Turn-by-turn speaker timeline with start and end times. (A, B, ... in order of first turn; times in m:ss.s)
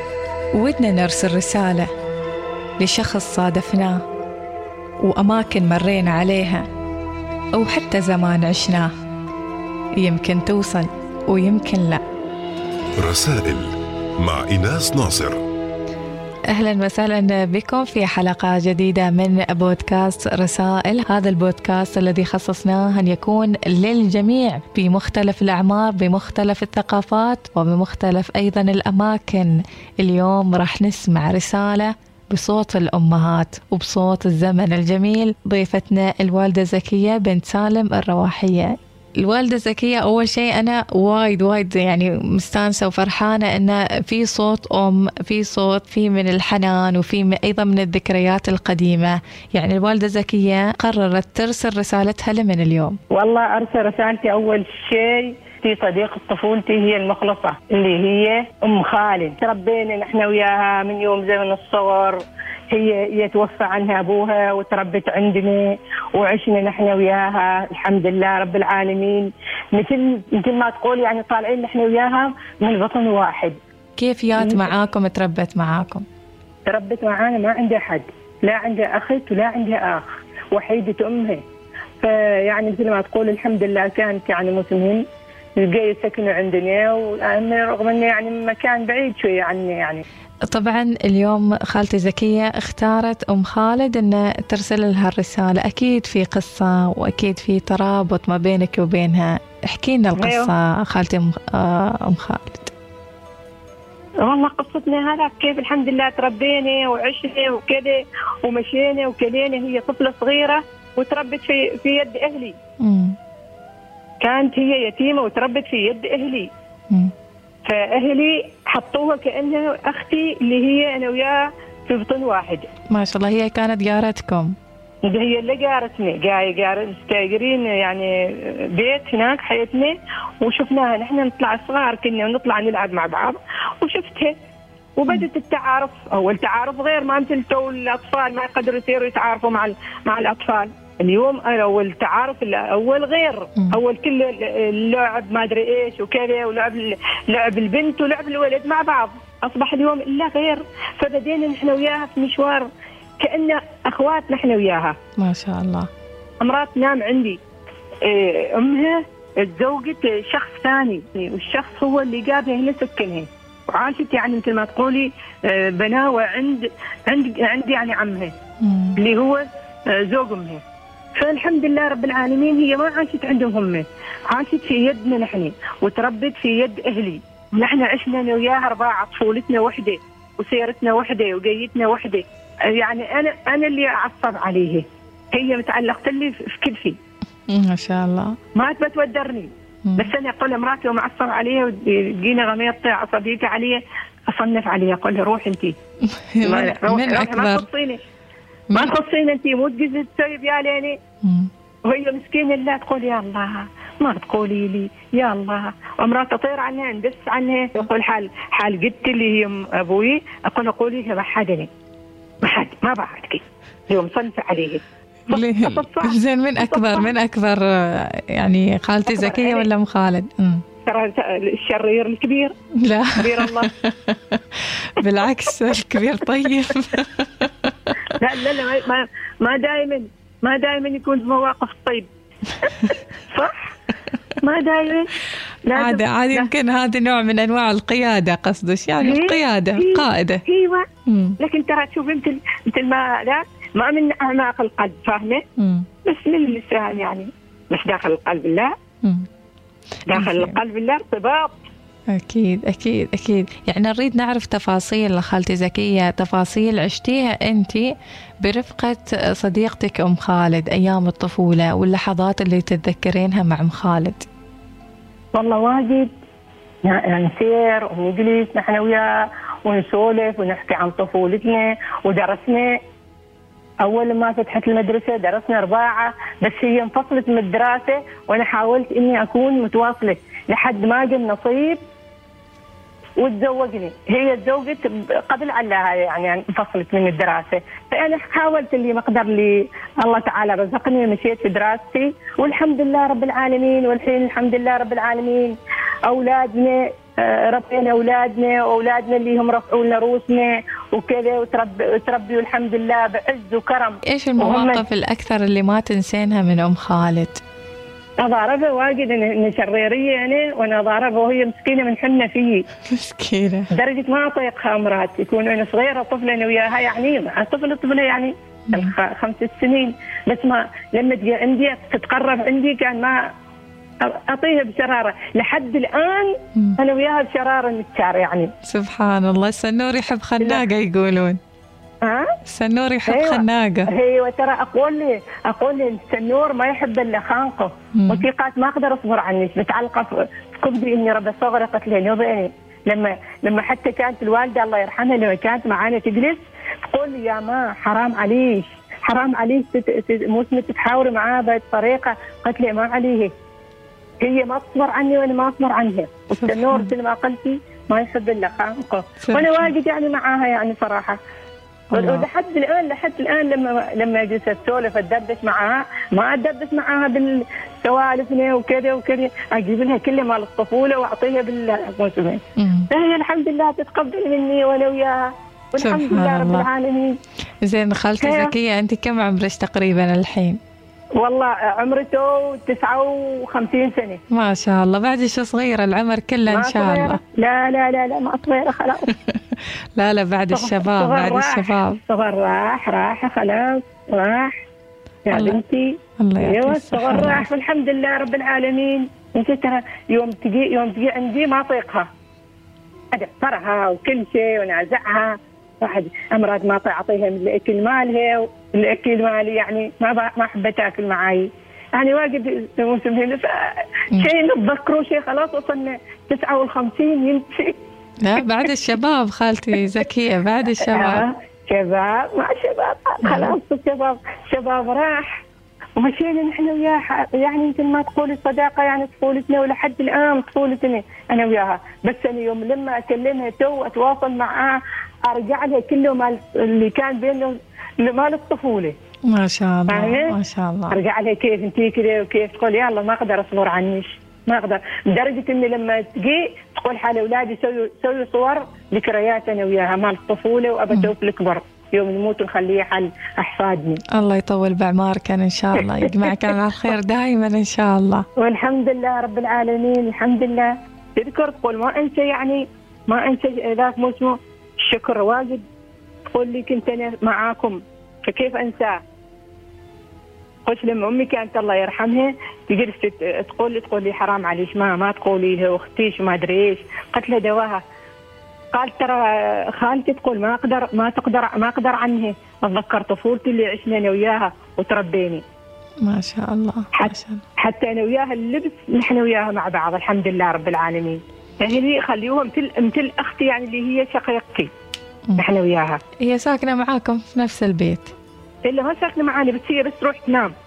0:00.5-0:01.9 A
0:02.8-0:04.0 A
0:05.0-0:06.6 A
0:07.5-0:08.9 A
0:10.0-0:12.0 A
0:13.0-0:15.4 B
0:16.5-0:53.0 A
0:53.1-1:13.6 C
1:14.0-1:16.0 A
1:14.4-1:14.7 C
1:16.7-1:21.4 C
1:22.0-1:25.0 C
1:25.6-1:30.0 C
1:30.5-1:42.7 A
1:40.2-1:40.5 C
1:44.2-1:52.5 C
1:52.8-1:53.2 A
1:54.2-1:56.5 C
1:57.6-2:02.7 C
2:02.9-2:04.6 A
2:05.0-2:14.3 C
2:15.0-2:32.7 C
2:33.2-2:34.9 C
2:35.2-2:35.9 A
2:36.4-2:37.4 C
2:38.0-2:48.3 C
2:48.6-2:49.0 A
2:49.0-2:50.6 C
2:51.2-3:02.2 C
3:02.8-3:07.0 C
3:07.5-3:08.4 A
3:08.6-3:13.8 C
3:09.8-3:10.1 A
3:14.3-3:15.7 C
3:16.0-3:17.7 A
3:16.4-3:18.0 C
3:18.8-3:20.9 C
3:21.2-3:21.5 A
3:21.8-3:31.7 C
3:32.4-3:37.1 C
3:35.3-3:40.6 A
3:39.1-3:39.7 C
3:40.8-3:42.5 C
3:42.8-3:47.9 A
3:43.2-3:43.7 C
3:48.2-3:52.1 C
3:53.3-3:53.7 C
3:54.4-3:55.1 C
3:55.7-3:56.5 C
3:55.7-4:00.4 A
3:59.0-4:00.8 C
4:01.0-4:01.4 A
4:01.4-4:05.4 C
4:05.6-4:05.9 A
4:06.0-4:08.7 C
4:09.0-4:09.3 A
4:10.1-4:11.5 C
4:10.1-4:10.6 A
4:12.1-4:24.2 A
4:25.4-4:26.1 C
4:26.8-4:29.0 C
4:29.6-4:32.8 C
4:33.8-4:41.8 C
4:43.2-5:04.8 C
5:04.1-5:07.4 A
5:08.2-5:12.6 C
5:12.8-5:13.7 A
5:13.7-5:23.2 C
5:18.7-5:18.9 A
5:24.0-5:28.5 C
5:28.7-5:31.4 A
5:32.5-5:33.9 A
5:33.1-5:53.3 C
5:38.0-5:38.2 A
5:54.2-6:01.2 C
5:56.4-5:56.9 A
5:59.2-5:59.7 A
6:01.9-6:02.3 A
6:01.9-6:17.2 C
6:12.6-6:12.9 A
6:15.8-6:16.7 A
6:17.6-6:20.6 A
6:18.2-6:18.5 C
6:21.2-6:24.2 C
6:24.3-6:27.2 A
6:26.5-6:29.1 C
6:29.1-6:32.0 A
6:30.5-6:34.6 C
6:35.3-6:42.1 C
6:35.3-6:35.6 A
6:36.2-6:37.5 A
6:43.1-6:53.6 C
6:54.2-6:57.8 C
6:58.2-7:01.2 A
7:00.9-7:05.3 C
7:03.3-7:03.6 A
7:06.0-7:18.9 C
7:19.3-7:21.0 A
7:19.9-7:20.3 C
7:20.9-7:34.0 C
7:34.1-7:38.2 A
7:35.8-7:36.3 C
7:38.4-7:45.6 C
7:46.3-7:49.0 C
7:50.6-7:57.8 C
7:58.7-8:05.4 C
8:06.0-8:07.4 A
8:06.9-8:14.7 C
8:15.4-8:16.0 C
8:16.2-8:18.1 A
8:18.6-8:20.5 C